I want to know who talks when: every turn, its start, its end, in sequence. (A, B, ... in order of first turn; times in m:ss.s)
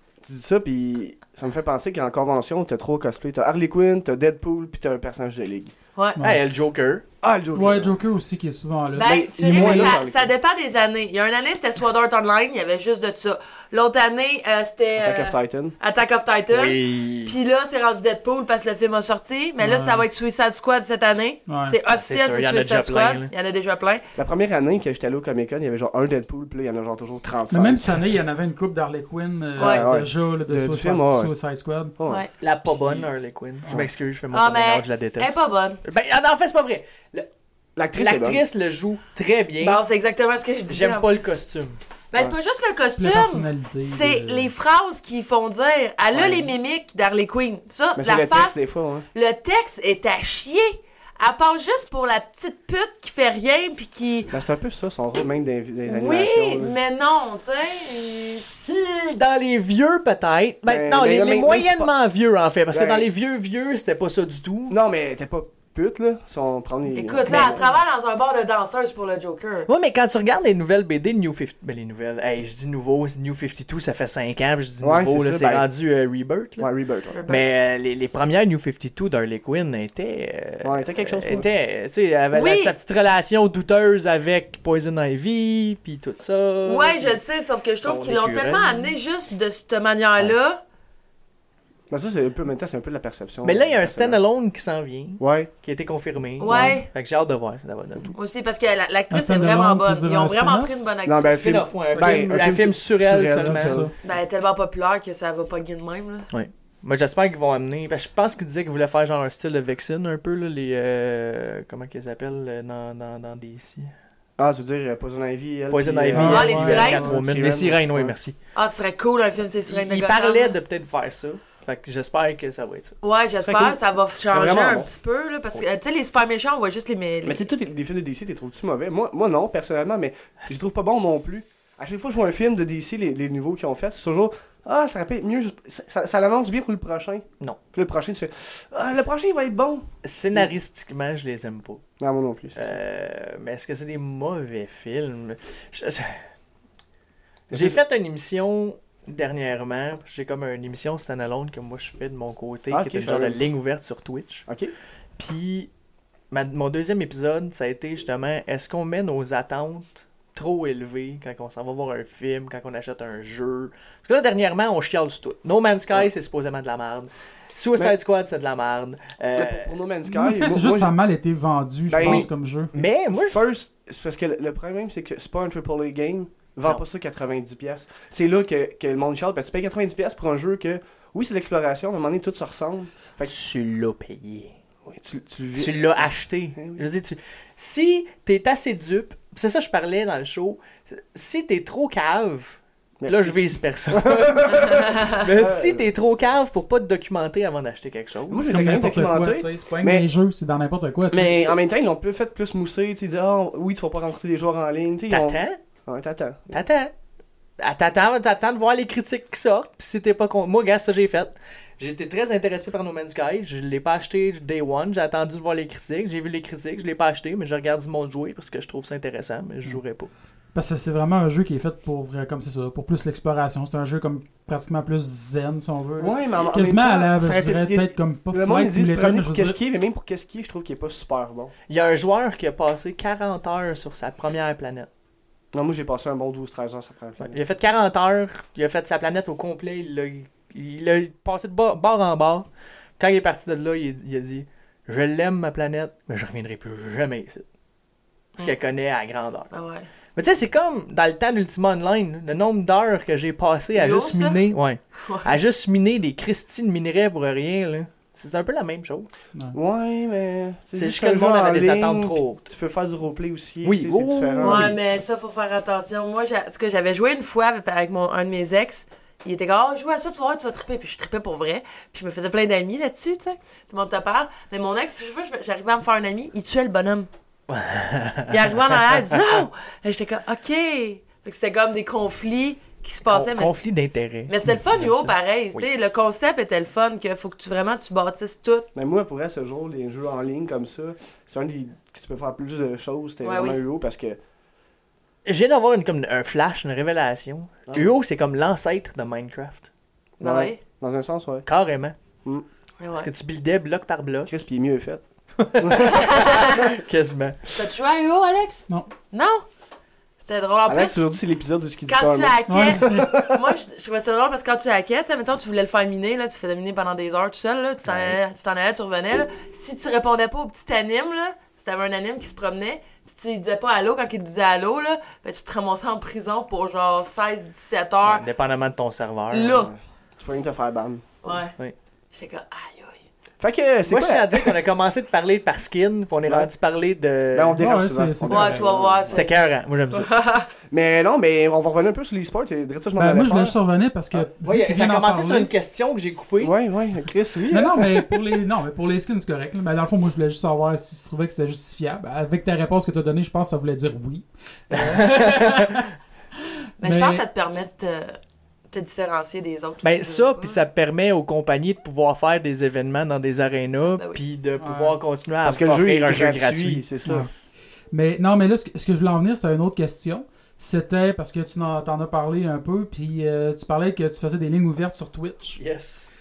0:00.2-0:05.7 A
0:06.2-0:07.0 B
0:07.2-0:08.0 A
0:07.5-0:10.0 C
0:08.9-0:24.0 D
0:09.0-0:10.3 A
0:15.0-0:15.8 A
0:16.5-0:17.4 B
0:19.6-0:20.0 C
0:21.5-0:21.8 C
0:21.9-0:23.3 B
0:24.2-0:28.0 A
0:27.5-0:31.9 C
0:29.6-0:31.3 A
0:29.6-0:29.9 D
0:32.0-0:32.2 A
0:32.0-0:32.3 D
0:32.4-0:37.3 B
0:34.3-0:35.8 D
0:37.8-0:38.4 A
0:37.9-0:39.8 B
0:39.6-0:41.3 D
0:40.7-0:41.8 B
0:42.1-0:48.6 D
0:43.0-0:44.5 C
0:46.1-0:46.4 B
0:48.0-0:49.0 A
0:49.1-0:54.4 D
0:54.3-0:56.7 A
0:55.9-0:58.7 D
0:58.6-1:04.8 B
1:00.6-1:01.9 A
1:02.7-1:03.1 A
1:04.7-1:07.7 A
1:06.9-1:09.7 D
1:07.3-1:07.7 B
1:09.6-1:16.7 B
1:14.8-1:15.7 A
1:16.6-1:17.2 A
1:17.1-1:17.6 D
1:17.3-1:27.2 B
1:20.6-1:21.4 A
1:22.3-1:22.7 D
1:26.6-1:30.6 D
1:27.8-1:28.9 B
1:31.9-1:34.2 A
1:33.4-1:38.1 B
1:35.2-1:35.5 A
1:36.4-1:36.9 D
1:36.5-1:36.8 A
1:38.1-1:41.6 D
1:39.1-1:40.7 C
1:41.0-1:43.9 A
1:41.3-1:43.8 B
1:41.9-1:42.3 C
1:43.2-1:43.9 C
1:44.0-1:46.3 D
1:46.3-1:53.9 B
1:54.4-1:58.1 A
1:55.7-1:58.3 B
1:56.1-1:57.2 C
1:56.2-1:57.1 D
1:58.5-2:00.6 D
1:59.6-2:02.9 B
2:03.0-2:07.4 D
2:03.4-2:04.9 A
2:07.2-2:20.5 A
2:20.0-2:21.8 B
2:22.0-2:22.8 A
2:22.6-2:26.3 B
2:27.5-2:27.8 A
2:27.5-2:34.5 B
2:32.7-2:33.4 A
2:34.5-2:34.7 A
2:35.2-2:35.7 B
2:36.3-2:49.7 B
2:49.4-2:50.9 A
2:50.0-2:52.7 C
2:51.9-3:03.3 A
2:52.0-2:53.4 B
3:03.2-3:04.5 B
3:04.8-3:06.8 A
3:05.5-3:18.8 B
3:13.0-3:15.8 A
3:18.3-3:20.1 A
3:18.4-3:21.5 C
3:21.1-3:26.6 A
3:25.1-3:25.6 B
3:26.5-3:26.9 B
3:27.6-3:40.1 B
3:40.5-3:49.6 C
3:46.0-3:51.5 A
3:51.7-3:54.9 B
3:55.5-3:57.4 A
3:57.2-4:02.5 B
4:03.0-4:07.4 B
4:08.4-4:09.5 B
4:09.5-4:09.9 D
4:10.2-4:19.1 B
4:13.7-4:14.4 D
4:15.0-4:15.4 D
4:19.5-4:24.8 A
4:20.8-4:22.4 B
4:23.6-4:24.7 B
4:24.4-4:37.1 D
4:37.5-4:38.4 B
4:38.3-4:43.6 D
4:43.1-4:45.7 B
4:44.3-4:48.7 D
4:48.7-4:54.2 A
4:53.2-4:53.6 D
4:55.2-4:59.7 B
4:57.7-4:57.9 A
5:00.2-5:00.6 D
5:00.2-5:01.4 A
5:01.4-5:01.9 B
5:02.8-5:03.1 D
5:02.9-5:04.3 B
5:04.2-5:05.0 A
5:05.4-5:07.4 B
5:05.6-5:05.9 A
5:05.8-5:06.7 D
5:07.5-5:09.4 D
5:10.2-5:11.0 D
5:10.7-5:13.5 A
5:11.9-5:28.2 D
5:12.5-5:13.2 C
5:17.8-5:18.2 A
5:28.0-5:29.6 B
5:29.3-5:29.7 D
5:29.5-5:31.0 A
5:31.2-5:31.5 D
5:32.1-5:33.0 D
5:33.4-5:34.6 A
5:33.9-5:37.6 B
5:37.3-5:39.2 A
5:37.6-5:38.7 C
5:38.3-5:40.5 D
5:39.1-5:40.1 B
5:40.7-5:43.6 A
5:43.0-5:45.5 C
5:44.4-5:46.5 B
5:46.4-5:48.0 A
5:47.5-5:55.9 C
5:54.7-5:55.9 B
5:56.8-5:57.2 C
5:56.8-5:58.2 D
5:58.7-6:00.6 D
5:59.8-6:06.8 B
6:03.9-6:04.2 D
6:04.6-6:05.0 C
6:05.4-6:07.3 A
6:07.0-6:07.3 C
6:07.9-6:15.6 C
6:15.6-6:16.1 B